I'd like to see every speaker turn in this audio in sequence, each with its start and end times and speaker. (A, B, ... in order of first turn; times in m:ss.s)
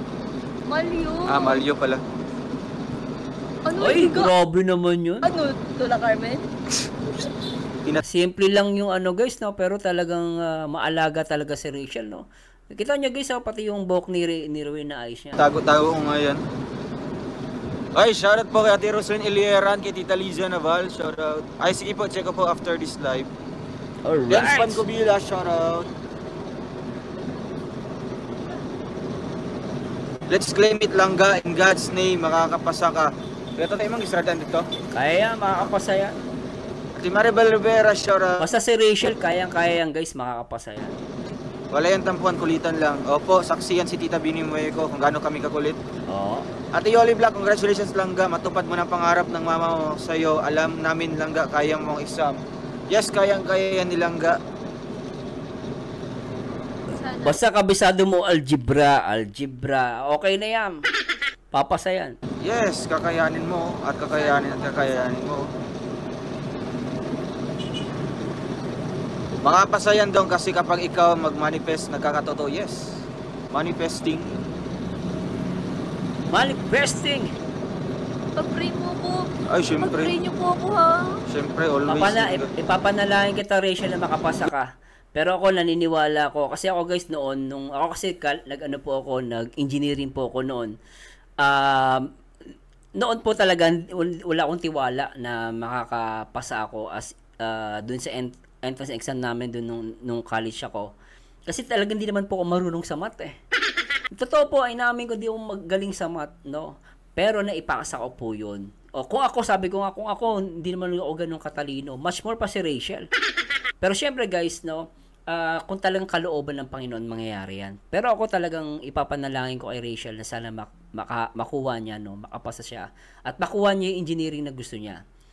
0:00.6-0:01.6 A
0:01.3-0:02.0 B
0:03.6-0:04.3 A
0:03.8-0:05.3 C
0:05.2-0:06.4 A
0:08.0-0:15.6 C
0:15.4-0:16.4 B
0:17.9-0:23.3 B
0:24.0-0:24.8 C
0:24.3-0:25.9 B
0:30.3-0:34.7 B
0:34.9-0:36.1 C
0:37.0-0:38.5 B
0:38.4-0:40.9 C
0:41.7-0:45.8 B
0:46.1-0:46.4 C
0:46.7-0:54.4 B
0:56.9-0:57.4 A
0:57.2-1:00.8 C
1:01.5-1:02.2 C
1:02.4-1:05.5 B
1:04.1-1:05.1 A
1:09.4-1:12.9 B
1:13.5-1:14.3 B
1:16.3-1:17.3 C
1:18.4-1:21.2 A
1:19.5-1:20.1 B
1:21.3-1:22.5 B
1:21.9-1:30.7 C
1:31.4-1:32.1 C
1:33.0-1:40.9 C
1:41.5-1:43.3 C
1:44.1-1:53.1 C
1:53.8-2:05.0 C